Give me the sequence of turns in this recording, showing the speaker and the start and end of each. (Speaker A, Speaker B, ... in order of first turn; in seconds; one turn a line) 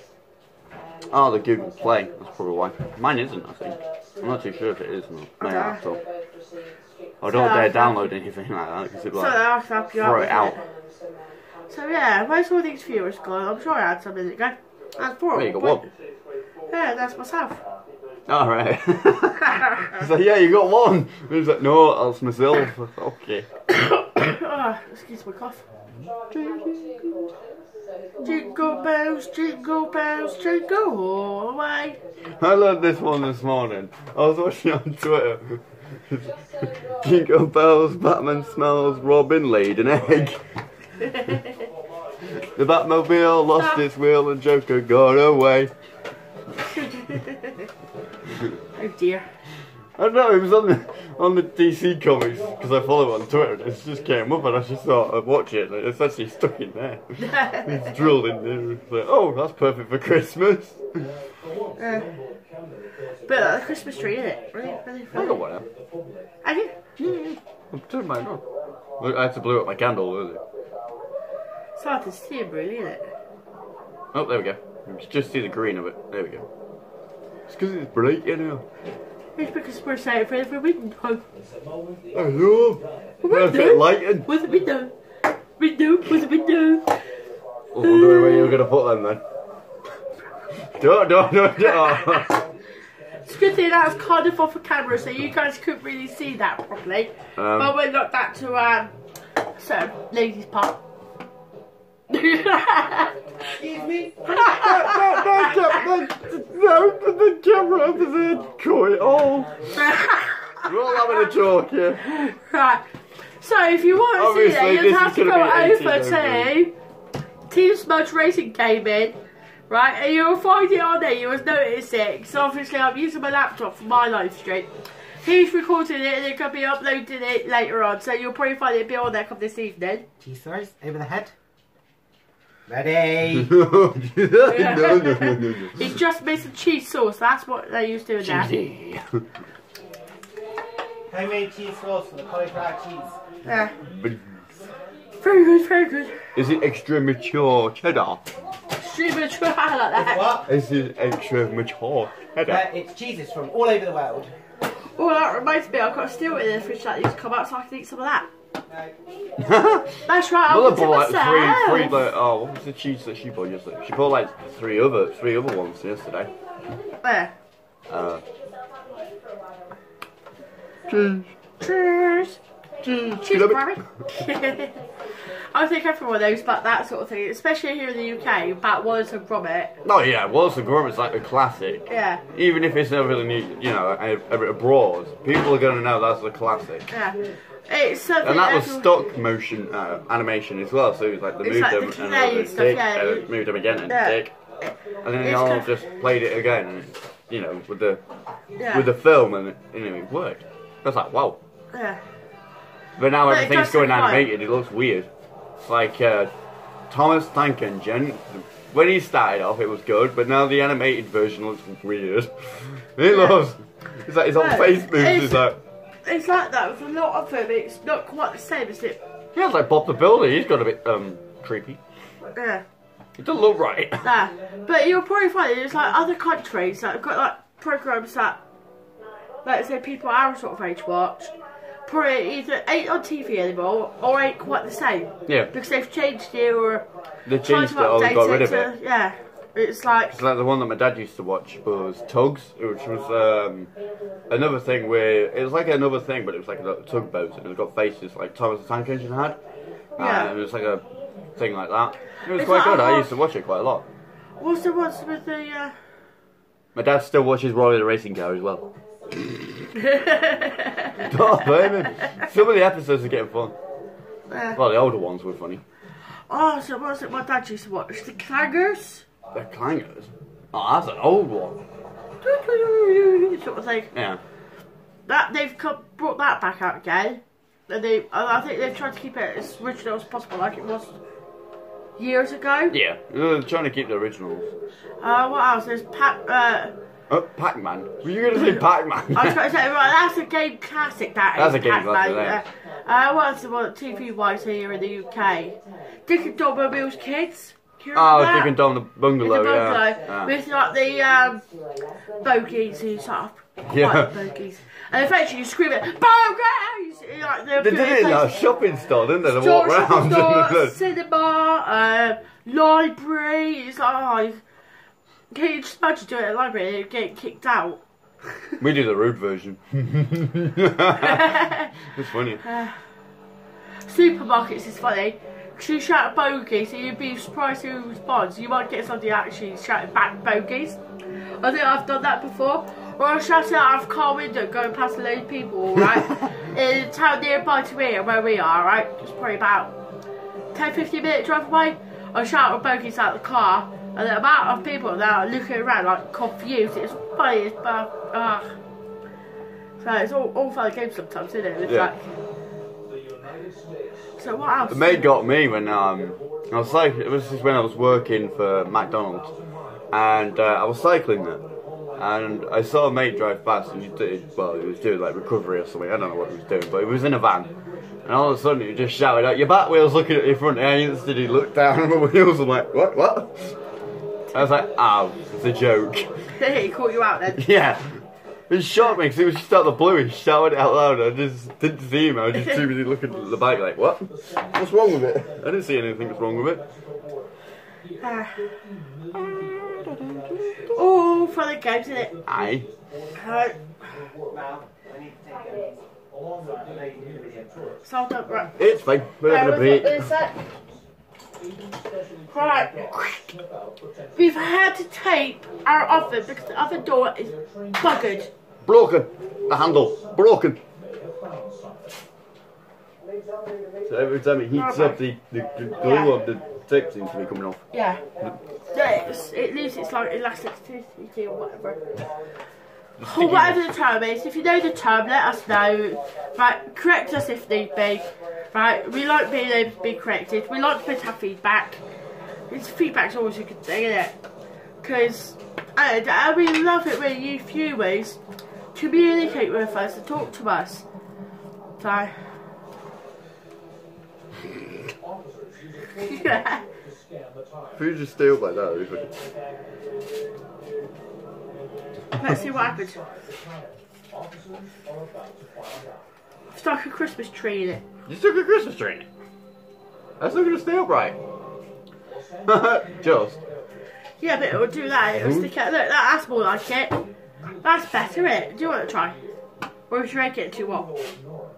Speaker A: 1.1-6.0
Speaker B: 5.4-5.8
Speaker A: 7.2-9.4
Speaker B: 7.3-8.1
Speaker B: 9.2-10.6
Speaker A: 10.0-10.6
Speaker B: 11.7-15.8
Speaker A: 15.3-15.9
Speaker B: 16.7-17.6
Speaker A: 18.3-23.5
Speaker B: 23.8-25.6
Speaker A: 26.3-27.3
Speaker B: 28.2-32.0
Speaker A: 32.4-40.4
Speaker A: 42.4-45.7
Speaker B: 43.6-43.8
Speaker B: 46.7-47.7
Speaker B: 48.8-49.3
Speaker A: 50.0-61.1
Speaker B: 57.2-57.8
Speaker B: 61.8-62.1
Speaker B: 63.3-65.4
Speaker A: 65.1-65.7
Speaker B: 66.4-66.7
Speaker A: 67.0-68.4
Speaker A: 69.0-70.4
Speaker B: 71.8-73.1
Speaker A: 74.1-76.5
Speaker A: 77.5-78.6
Speaker B: 79.4-81.2
Speaker A: 82.1-84.3
Speaker B: 83.2-84.9
Speaker B: 85.5-87.0
Speaker A: 87.7-89.2
Speaker B: 87.8-88.6
Speaker A: 90.6-92.5
Speaker B: 91.6-92.3
Speaker B: 93.2-99.0
Speaker A: 97.4-97.8
Speaker B: 99.6-100.8
Speaker B: 102.1-103.1
Speaker C: 103.5-104.4
Speaker B: 104.3-105.8
Speaker A: 104.3-109.7
Speaker B: 109.8-111.3
Speaker A: 110.7-112.1
Speaker B: 112.0-116.7
Speaker A: 114.1-116.5
Speaker B: 117.5-119.2
Speaker B: 119.7-130.1
Speaker C: 130.2-131.3
Speaker C: 132.7-133.6
Speaker A: 133.3-136.0
Speaker B: 134.5-138.5
Speaker A: 138.2-139.2
Speaker C: 141.1-143.2
Speaker B: 143.4-143.8
Speaker A: 143.8-144.4
Speaker B: 145.2-146.3
Speaker A: 146.3-148.2
Speaker B: 148.8-150.4
Speaker C: 149.9-150.5
Speaker A: 150.5-152.6
Speaker C: 152.4-154.3
Speaker B: 154.8-158.3
Speaker A: 159.4-166.3
Speaker B: 160.1-162.0
Speaker B: 167.0-167.3
Speaker A: 167.9-168.2
Speaker A: 170.9-171.3
Speaker B: 171.6-172.4
Speaker A: 172.8-173.8
Speaker B: 173.1-179.8
Speaker A: 179.8-186.9
Speaker B: 181.9-182.2
Speaker B: 186.9-188.9
Speaker A: 188.2-194.3
Speaker B: 191.4-193.3
Speaker B: 193.9-195.7
Speaker A: 195.0-198.0
Speaker B: 198.6-198.9
Speaker A: 198.7-201.4
Speaker B: 201.7-202.0
Speaker A: 203.0-205.1
Speaker B: 203.3-204.3
Speaker A: 205.6-206.3
Speaker A: 206.9-215.6
Speaker B: 213.1-213.4
Speaker B: 214.4-215.5
Speaker B: 216.1-219.0
Speaker A: 219.3-221.8
Speaker B: 222.4-222.6
Speaker A: 223.2-224.1
Speaker B: 224.0-228.4
Speaker B: 229.4-231.3
Speaker B: 231.9-236.8
Speaker A: 237.3-238.7
Speaker B: 237.4-240.1
Speaker A: 240.1-243.7
Speaker A: 244.3-249.4
Speaker B: 250.0-250.3
Speaker A: 250.0-250.8
Speaker A: 251.4-253.9
Speaker B: 252.3-253.1
Speaker B: 254.4-255.8
Speaker A: 256.8-259.7
Speaker B: 259.8-262.2
Speaker A: 261.0-263.6
Speaker B: 264.3-264.6
Speaker A: 264.6-265.6
Speaker B: 266.3-269.1
Speaker A: 269.3-271.6
Speaker B: 272.2-273.9
Speaker A: 273.9-274.2
Speaker B: 275.1-281.0
Speaker B: 282.0-282.8
Speaker A: 282.7-284.5
Speaker B: 285.0-286.7
Speaker A: 287.1-289.4
Speaker B: 288.4-288.6
Speaker B: 289.1-298.5
Speaker A: 291.4-292.4
Speaker A: 297.9-300.3
Speaker B: 299.2-301.4
Speaker B: 302.2-308.4
Speaker A: 303.7-304.1
Speaker A: 307.6-310.8
Speaker B: 309.2-314.4
Speaker B: 315.3-317.8
Speaker A: 318.6-322.4
Speaker B: 321.0-321.9
Speaker B: 322.4-322.8
Speaker B: 323.8-339.7
Speaker B: 340.5-348.6
Speaker B: 349.8-352.1
Speaker A: 351.6-351.9
Speaker B: 354.2-355.1
Speaker A: 354.7-359.3
Speaker A: 359.9-361.4
Speaker A: 362.0-367.5
Speaker A: 368.1-373.6
Speaker A: 374.3-376.3
Speaker B: 376.3-377.4
Speaker A: 377.4-386.6
Speaker B: 388.0-388.5
Speaker A: 389.1-390.8
Speaker B: 390.8-392.1
Speaker A: 392.3-392.7
Speaker B: 393.2-393.6
Speaker C: 394.3-395.9
Speaker C: 396.4-397.8
Speaker B: 397.9-398.6
Speaker A: 398.6-400.1
Speaker B: 399.3-400.4
Speaker B: 402.3-402.9
Speaker B: 404.1-408.3
Speaker A: 408.6-410.6
Speaker A: 413.9-417.6
Speaker B: 414.6-415.0
Speaker B: 415.8-416.1
Speaker B: 417.7-418.0
Speaker B: 418.7-421.9
Speaker A: 423.0-423.6
Speaker B: 423.0-431.8
Speaker B: 432.5-434.1
Speaker B: 434.8-438.2
Speaker B: 438.8-440.9
Speaker B: 441.8-442.1
Speaker B: 446.0-446.6
Speaker A: 447.8-449.1
Speaker B: 452.2-453.0
Speaker B: 456.5-457.8
Speaker A: 458.1-459.1
Speaker A: 460.2-461.2
Speaker A: 462.5-463.4
Speaker B: 464.2-467.0
Speaker A: 465.1-465.5
Speaker B: 467.6-469.2
Speaker B: 469.9-470.9